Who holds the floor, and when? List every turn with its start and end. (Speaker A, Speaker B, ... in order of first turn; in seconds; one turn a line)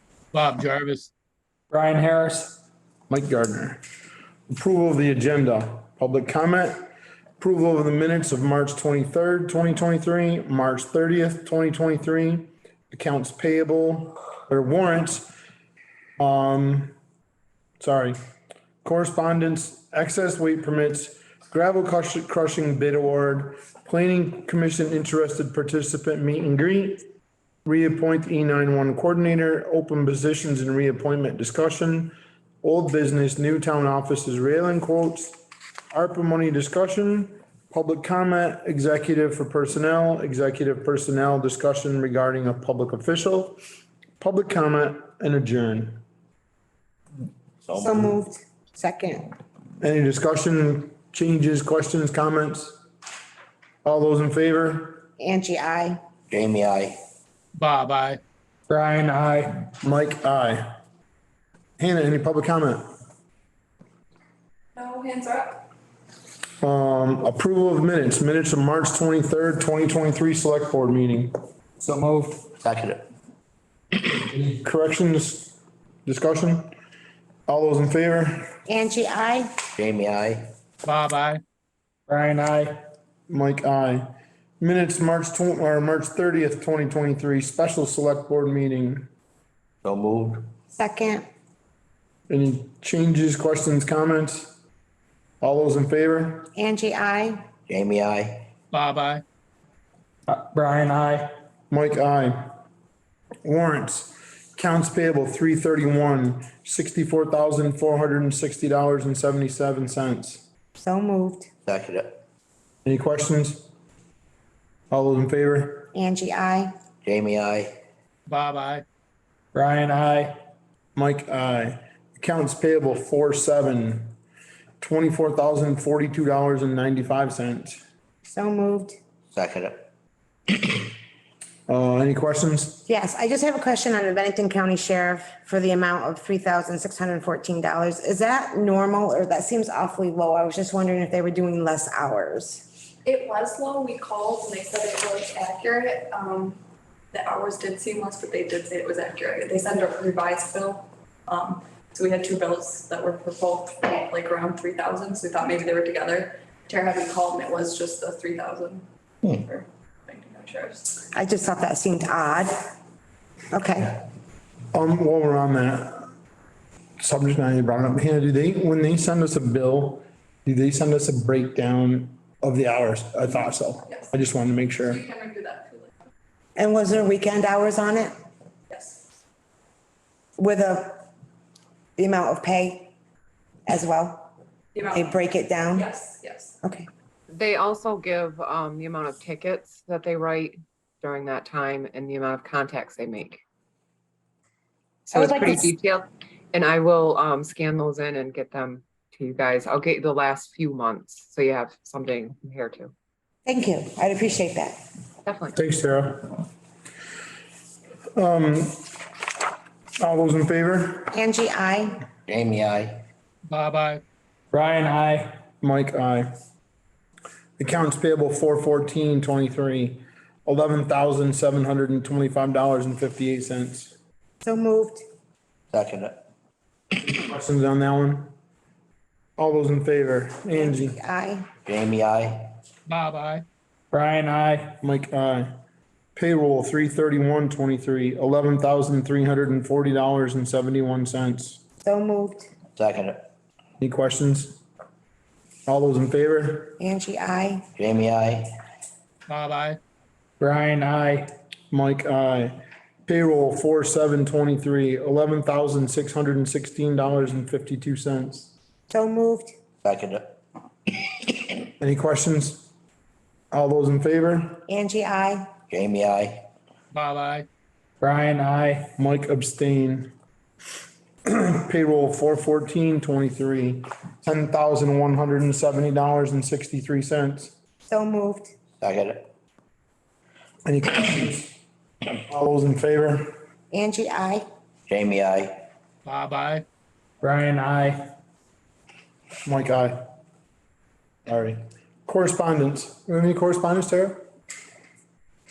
Speaker A: 0.3-1.1
Speaker B: 1.7-2.6
Speaker C: 3.1-3.8
Speaker C: 4.5-6.8
Speaker C: 7.4-15.3
Speaker C: 16.2-16.9
Speaker C: 17.8-18.2
Speaker C: 18.8-27.1
Speaker C: 27.6-35.4
Speaker C: 35.9-43.6
Speaker C: 44.2-46.0
Speaker D: 47.6-48.1
Speaker E: 47.8-49.3
Speaker C: 49.8-52.8
Speaker C: 53.8-55.1
Speaker E: 55.2-56.0
Speaker D: 56.3-57.0
Speaker A: 57.5-58.2
Speaker B: 58.7-59.7
Speaker C: 59.8-60.8
Speaker C: 61.8-62.8
Speaker F: 64.8-65.7
Speaker C: 66.6-71.3
Speaker B: 71.8-72.5
Speaker D: 72.6-73.0
Speaker C: 74.3-76.8
Speaker C: 77.5-78.5
Speaker E: 78.7-79.5
Speaker D: 79.8-80.5
Speaker A: 80.8-81.4
Speaker B: 82.1-82.8
Speaker C: 83.3-89.1
Speaker D: 89.8-90.5
Speaker E: 90.7-91.3
Speaker C: 92.3-94.5
Speaker C: 95.4-96.5
Speaker E: 96.6-97.5
Speaker D: 97.7-98.5
Speaker A: 98.7-99.2
Speaker B: 100.3-101.3
Speaker C: 101.7-102.5
Speaker C: 103.4-110.4
Speaker E: 110.8-111.5
Speaker D: 111.7-112.2
Speaker C: 112.8-113.7
Speaker C: 114.9-115.9
Speaker E: 115.9-116.7
Speaker D: 117.0-117.8
Speaker A: 118.3-118.8
Speaker B: 119.5-120.4
Speaker C: 121.0-124.1
Speaker C: 124.8-127.8
Speaker E: 128.3-129.0
Speaker D: 129.3-129.9
Speaker C: 131.7-132.8
Speaker E: 132.9-142.7
Speaker F: 143.0-146.6
Speaker F: 147.1-158.8
Speaker F: 159.4-160.9
Speaker E: 161.1-162.6
Speaker E: 163.5-164.0
Speaker C: 164.7-166.1
Speaker C: 167.0-175.0
Speaker F: 174.9-175.9
Speaker E: 176.6-178.1
Speaker F: 178.7-179.0
Speaker E: 180.4-181.1
Speaker E: 182.0-182.9
Speaker E: 183.7-184.3
Speaker F: 184.8-185.2
Speaker E: 184.9-185.9
Speaker F: 185.7-186.6
Speaker E: 186.6-186.9
Speaker G: 187.3-193.4
Speaker G: 195.1-202.9
Speaker E: 195.1-195.7
Speaker E: 203.5-204.8
Speaker G: 205.3-205.6
Speaker C: 205.6-206.4
Speaker C: 208.2-208.9
Speaker C: 210.0-211.1
Speaker E: 211.1-212.0
Speaker D: 212.3-213.1
Speaker A: 213.5-214.0
Speaker B: 214.5-215.4
Speaker C: 215.6-216.3
Speaker C: 217.6-224.0
Speaker E: 224.4-225.0
Speaker D: 225.7-226.2
Speaker C: 227.1-228.3
Speaker C: 229.4-231.0
Speaker E: 230.6-231.5
Speaker D: 231.7-232.5
Speaker A: 232.9-233.5
Speaker B: 233.9-234.8
Speaker C: 234.8-235.5
Speaker C: 236.2-241.6
Speaker E: 241.8-242.5
Speaker D: 242.8-243.2
Speaker C: 243.8-244.6
Speaker C: 245.7-246.8
Speaker E: 246.8-247.7
Speaker D: 247.8-248.5
Speaker A: 249.3-249.8
Speaker B: 250.4-251.3
Speaker C: 251.7-258.5
Speaker E: 258.9-259.5
Speaker D: 259.8-260.4
Speaker C: 261.8-262.7
Speaker C: 263.5-264.6
Speaker E: 264.7-265.5
Speaker D: 265.7-266.5
Speaker A: 266.9-267.5
Speaker B: 268.0-268.9
Speaker C: 269.0-270.1
Speaker C: 271.3-277.5
Speaker E: 277.9-278.5
Speaker D: 278.8-279.3
Speaker C: 280.7-281.6
Speaker C: 282.3-283.3
Speaker E: 283.7-284.4
Speaker D: 284.9-285.6
Speaker A: 286.1-286.7
Speaker B: 287.2-288.1
Speaker C: 289.4-290.0
Speaker C: 291.3-294.3